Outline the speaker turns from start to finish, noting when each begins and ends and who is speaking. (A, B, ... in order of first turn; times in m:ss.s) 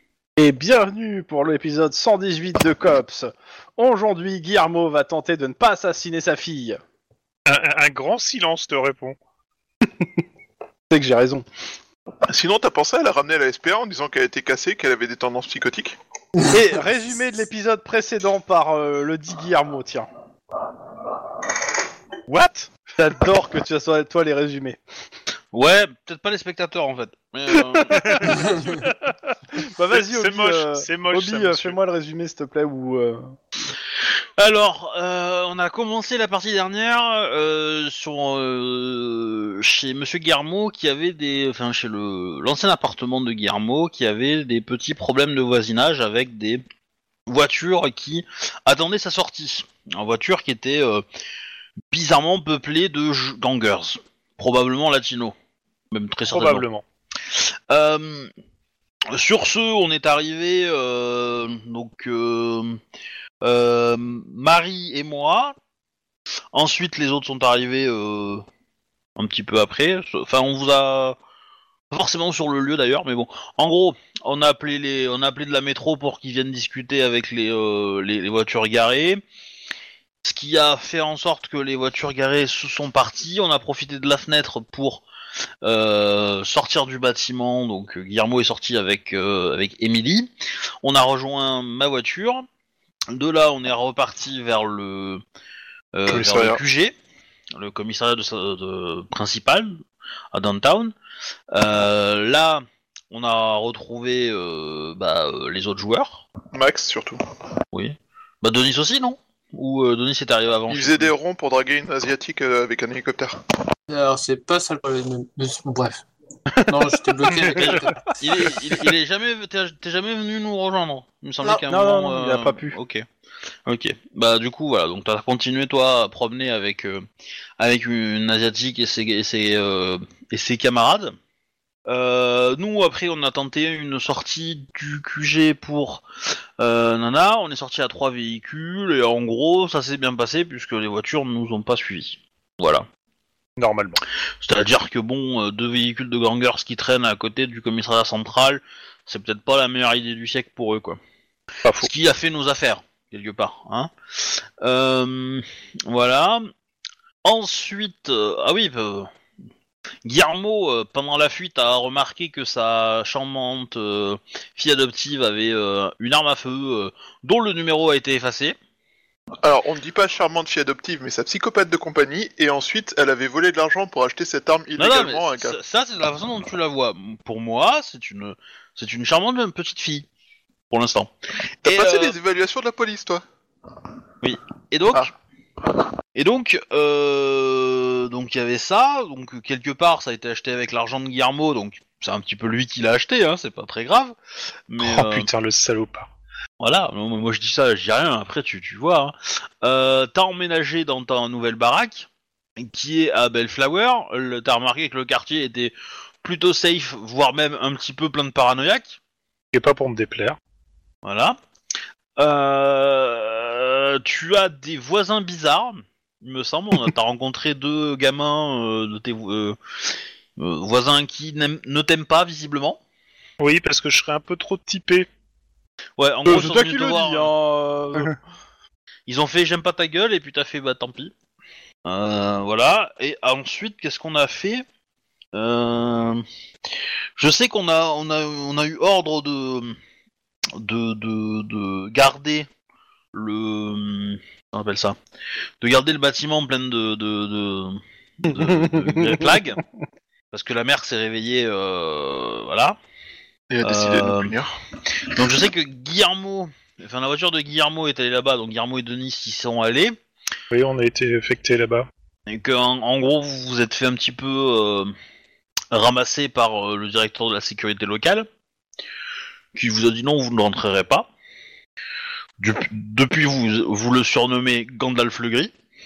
0:00.4-0:06.8 A
0:07.5-0:09.2 B
0:10.9-0:11.5 A
0:12.3-0:16.0 C
0:16.5-0:20.1 A
0:22.3-0:24.8 A
0:25.5-0:28.4 D
0:27.8-0:28.5 A
0:28.0-0:28.9 B
0:28.2-0:28.8 E
0:29.6-0:33.3 A
0:29.9-0:31.8 B
0:34.4-0:46.6 D
0:47.3-0:51.0 D
0:51.9-0:55.4 D
0:55.9-0:56.7 D
0:56.3-0:56.8 B
0:57.4-0:58.3 D
0:59.1-1:02.8 D
1:03.4-1:05.6 D
1:06.5-1:08.4 D
1:09.2-1:11.2 D
1:11.9-1:19.2 D
1:20.2-1:25.0 D
1:25.6-1:30.3 D
1:30.8-1:32.5 D
1:33.1-1:35.2 D
1:35.9-1:37.0 D
1:36.1-1:36.6 C
1:37.5-1:39.8 D
1:40.3-1:41.0 D
1:41.5-1:46.2 D
1:46.5-1:47.2 C
1:47.7-1:51.1 D
1:50.7-1:53.4 C
1:53.9-1:56.0 E
1:56.6-1:56.9 A
1:56.7-1:58.0 E
1:57.4-2:03.0 D
2:01.7-2:02.8 A
2:03.7-2:07.0 D
2:07.6-2:11.2 D
2:11.9-2:16.0 D
2:16.6-2:22.9 D
2:23.6-2:24.0 B
2:24.4-2:31.0 D
2:31.8-2:36.5 D
2:37.2-2:39.1 D
2:40.0-2:48.6 D
2:49.4-2:55.6 C
2:54.8-3:00.1 D
3:00.7-3:01.1 D
3:01.6-3:02.2 D
3:01.6-3:03.2 C
3:04.2-3:05.1 D
3:06.2-3:14.2 D
3:14.7-3:15.3 D
3:14.8-3:16.1 B
3:16.6-3:29.0 D
3:29.5-3:30.4 B
3:31.0-3:31.4 D
3:32.2-3:39.6 D
3:40.4-3:42.8 D
3:43.4-3:45.1 B
3:46.0-3:47.3 D
3:46.3-3:48.1 A
3:49.1-3:51.1 D
3:51.8-3:54.6 D
3:55.3-3:56.2 D
3:57.2-3:59.8 D
4:00.6-4:02.5 D
4:03.1-4:05.0 D
4:05.6-4:09.6 D
4:08.4-4:09.6 A
4:10.3-4:12.8 D
4:13.5-4:14.6 C
4:13.6-4:14.4 D
4:15.0-4:20.0 D
4:20.5-4:21.9 B
4:22.3-4:24.9 D
4:25.7-4:28.3 D
4:29.5-4:31.1 D
4:32.4-4:35.5 D